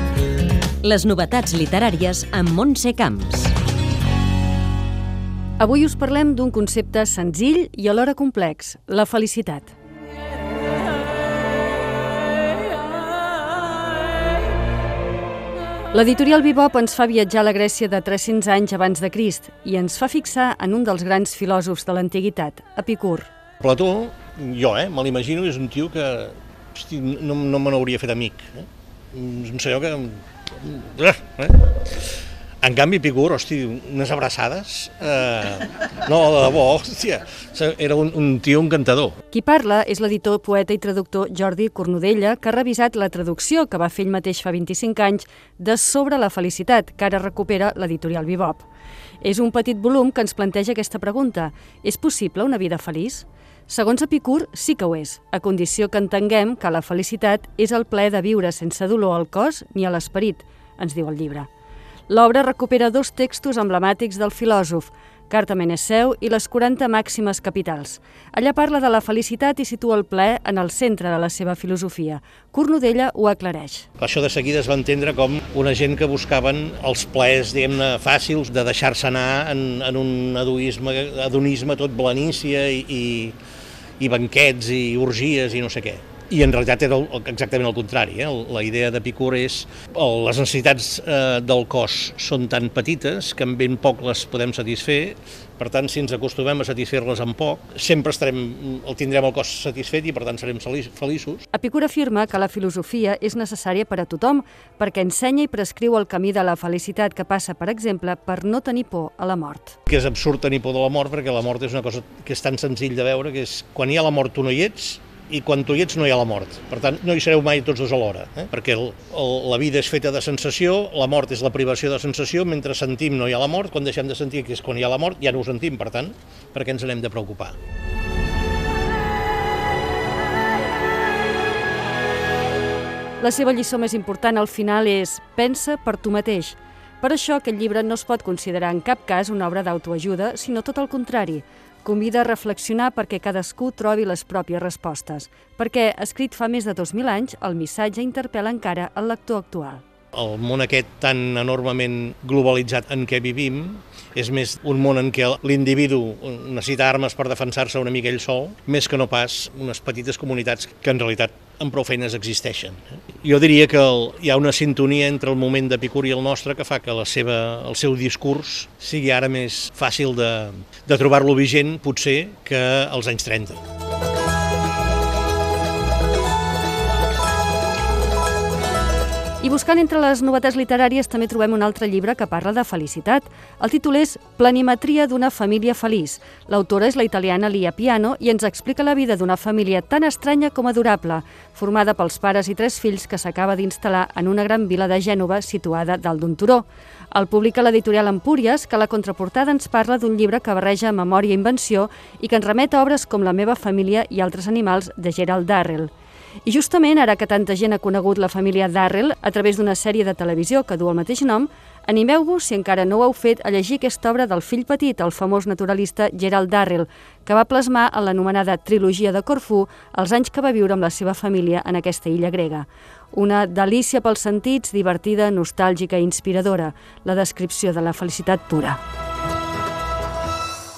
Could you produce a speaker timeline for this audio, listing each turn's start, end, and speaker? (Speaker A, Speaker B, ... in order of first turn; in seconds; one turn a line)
Speaker A: 0.8-3.5
Speaker B: 5.6-9.7
Speaker B: 15.9-23.3
Speaker C: 23.6-32.0
Speaker C: 32.6-39.1
Speaker B: 39.3-48.7
Speaker B: 49.2-61.5
Speaker B: 62.1-73.8
Speaker C: 74.0-83.3
Speaker C: 84.0-101.5
Speaker B: 101.5-109.8
Speaker C: 109.9-127.5
Speaker B: 133.2-149.8
Speaker C: 150.1-173.6
Speaker B: 179.4-205.9
Speaker B: 206.4-228.8